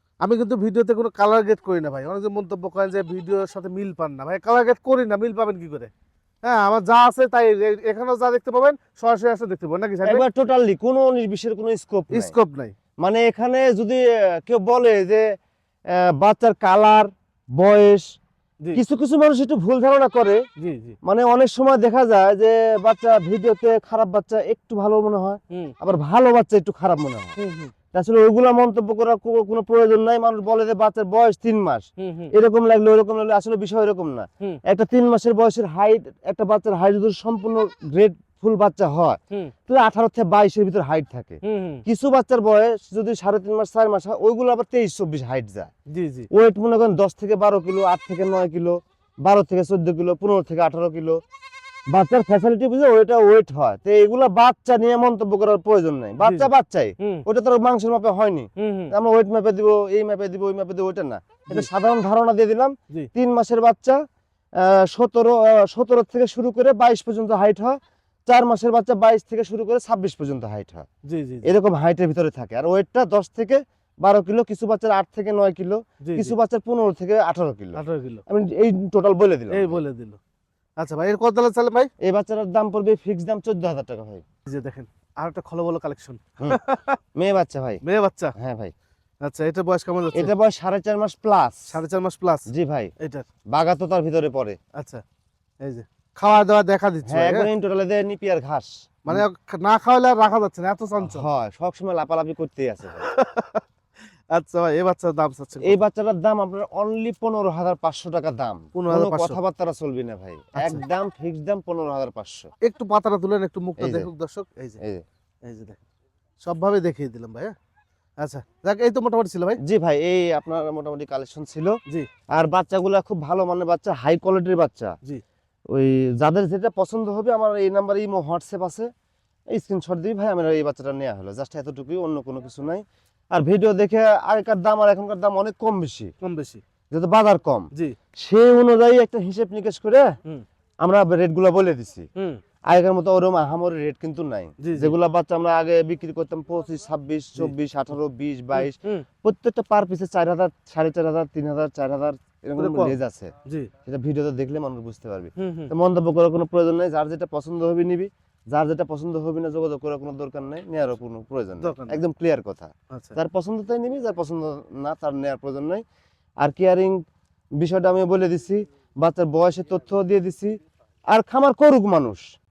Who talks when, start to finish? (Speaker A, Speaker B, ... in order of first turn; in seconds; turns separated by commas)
Speaker A: 0.2-5.9, Speaker A: 6.4-10.2, Speaker B: 10.0-12.3, Speaker A: 12.1-12.7, Speaker B: 13.0-15.2, Speaker B: 15.9-18.0, Speaker B: 18.8-20.4, Speaker A: 20.6-21.0, Speaker B: 21.0-27.4, Speaker A: 27.4-27.7, Speaker B: 27.9-45.7, Speaker A: 32.0-32.3, Speaker A: 41.4-41.8, Speaker A: 45.9-46.3, Speaker B: 46.3-51.2, Speaker B: 51.9-64.0, Speaker A: 56.2-56.5, Speaker A: 58.6-59.0, Speaker B: 64.6-70.9, Speaker A: 71.1-71.5, Speaker B: 71.5-79.8, Speaker A: 76.0-76.3, Speaker A: 77.8-78.2, Speaker A: 79.5-80.2, Speaker A: 80.8-81.9, Speaker B: 82.0-84.2, Speaker A: 84.5-87.0, Speaker B: 87.2-87.8, Speaker A: 87.8-88.3, Speaker B: 88.4-88.7, Speaker A: 89.2-90.3, Speaker B: 90.1-91.8, Speaker A: 91.7-93.3, Speaker B: 92.5-92.9, Speaker B: 93.5-94.6, Speaker A: 94.8-95.0, Speaker A: 95.6-97.5, Speaker B: 97.1-99.2, Speaker A: 99.1-101.3, Speaker B: 101.0-103.1, Speaker A: 102.9-103.6, Speaker A: 104.3-105.8, Speaker B: 105.6-112.5, Speaker A: 108.7-109.4, Speaker A: 110.6-110.8, Speaker A: 112.6-114.8, Speaker B: 113.8-114.1, Speaker A: 115.5-115.8, Speaker A: 116.4-117.5, Speaker A: 118.2-119.6, Speaker B: 119.6-121.8, Speaker B: 122.3-125.0, Speaker B: 125.7-128.9, Speaker B: 129.5-136.1, Speaker A: 136.2-136.6, Speaker B: 136.9-140.1, Speaker B: 140.8-142.1, Speaker B: 142.7-153.3, Speaker A: 144.6-145.0, Speaker A: 148.6-149.1, Speaker A: 152.6-153.7, Speaker B: 153.9-165.8, Speaker A: 155.4-155.7, Speaker A: 161.6-162.0, Speaker A: 162.9-163.2, Speaker B: 166.4-167.0, Speaker B: 167.6-170.5, Speaker B: 171.1-172.2